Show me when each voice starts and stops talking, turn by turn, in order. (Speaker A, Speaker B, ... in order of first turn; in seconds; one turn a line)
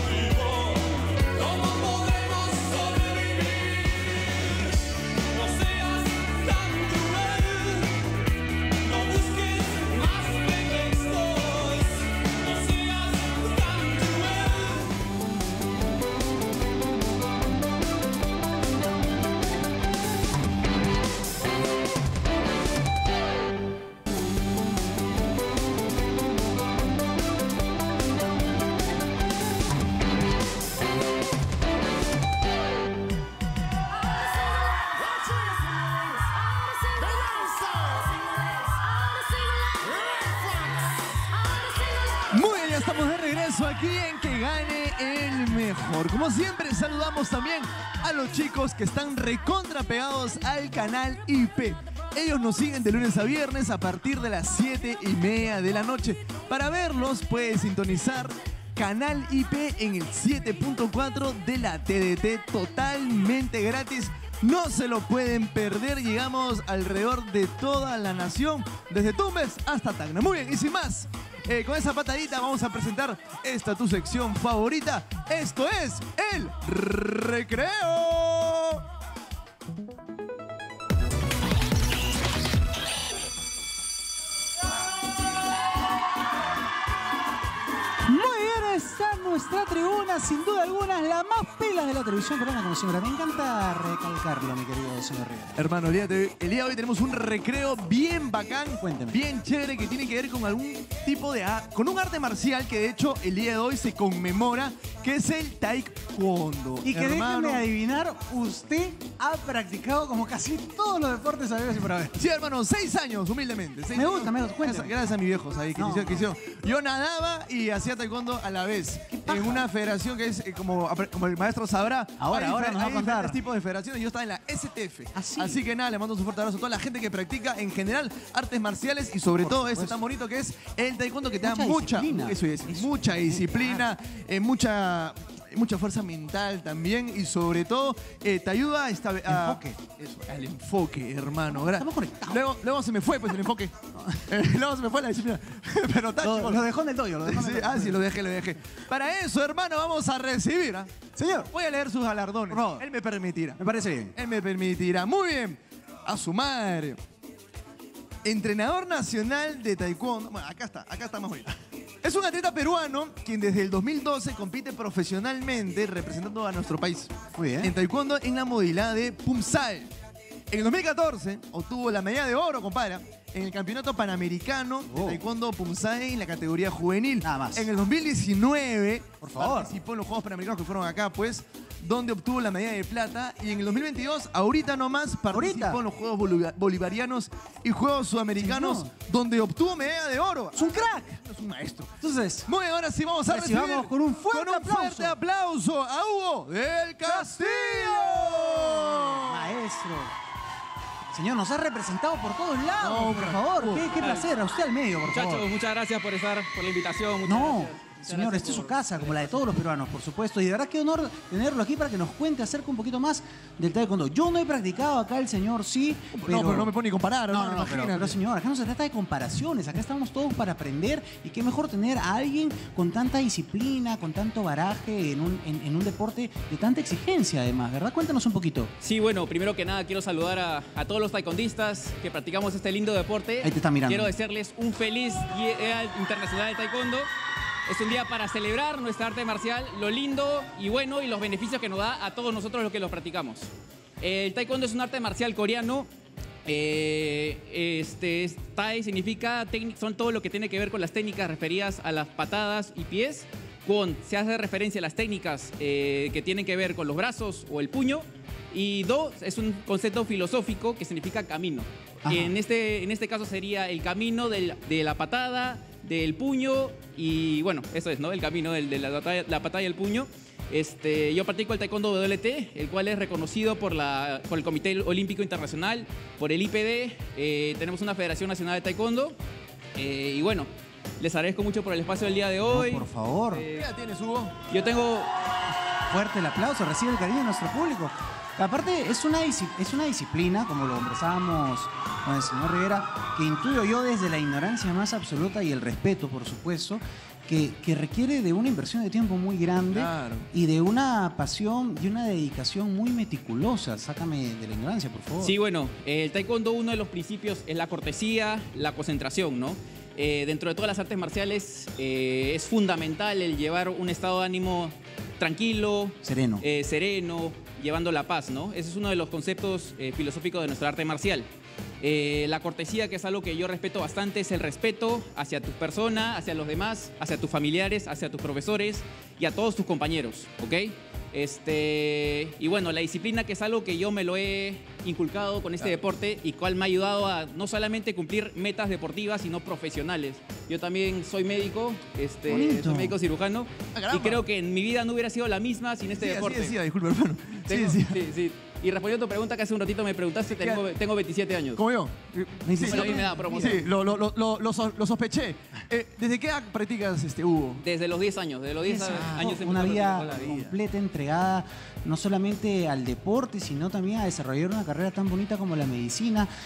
Speaker A: 42.3-78.8
Speaker B: 88.0-95.6
Speaker A: 95.6-107.6
Speaker B: 98.8-99.2
Speaker B: 106.8-112.2
Speaker A: 112.2-143.7
Speaker B: 114.0-114.9
Speaker B: 115.8-116.3
Speaker B: 119.1-119.7
Speaker B: 122.2-123.4
Speaker B: 125.2-125.6
Speaker B: 129.4-130.0
Speaker B: 131.4-133.9
Speaker B: 139.3-139.8
Speaker B: 141.5-142.4
Speaker B: 144.0-144.2
Speaker A: 144.3-146.7
Speaker B: 146.2-148.0
Speaker A: 147.2-150.9
Speaker B: 151.2-151.5
Speaker A: 151.5-153.6
Speaker B: 152.5-152.8
Speaker B: 153.6-154.2
Speaker A: 154.2-157.0
Speaker A: 158.2-161.5
Speaker A: 162.0-169.9
Speaker B: 167.3-167.8
Speaker A: 170.5-199.6
Speaker B: 174.9-175.2
Speaker B: 177.2-177.7
Speaker B: 179.2-179.8
Speaker B: 185.3-185.8
Speaker B: 188.4-188.9
Speaker B: 190.6-191.2
Speaker B: 192.0-192.5
Speaker B: 193.3-195.2
Speaker B: 197.0-200.1
Speaker B: 201.1-205.5
Speaker A: 202.8-203.9
Speaker C: 204.0-204.3
Speaker C: 205.0-209.5
Speaker B: 207.3-216.7
Speaker A: 216.2-218.2
Speaker B: 217.3-228.7
Speaker C: 228.8-237.1
Speaker B: 233.4-234.1
Speaker C: 237.7-243.5
Speaker C: 244.0-245.9
Speaker C: 246.4-279.2
Speaker B: 262.1-262.4
Speaker C: 279.8-283.7
Speaker B: 282.5-283.5
Speaker A: 283.6-284.3
Speaker C: 284.5-285.1
Speaker B: 285.9-305.4
Speaker A: 299.7-300.3
Speaker C: 305.2-321.3
Speaker B: 316.0-316.4
Speaker C: 321.8-346.6
Speaker B: 342.3-343.0
Speaker A: 343.8-344.2
Speaker A: 346.0-348.0
Speaker C: 347.5-351.6
Speaker A: 350.3-350.6
Speaker A: 351.6-357.6
Speaker B: 352.4-353.6
Speaker C: 352.6-353.7
Speaker C: 357.6-360.6
Speaker B: 358.7-366.3
Speaker A: 358.8-359.3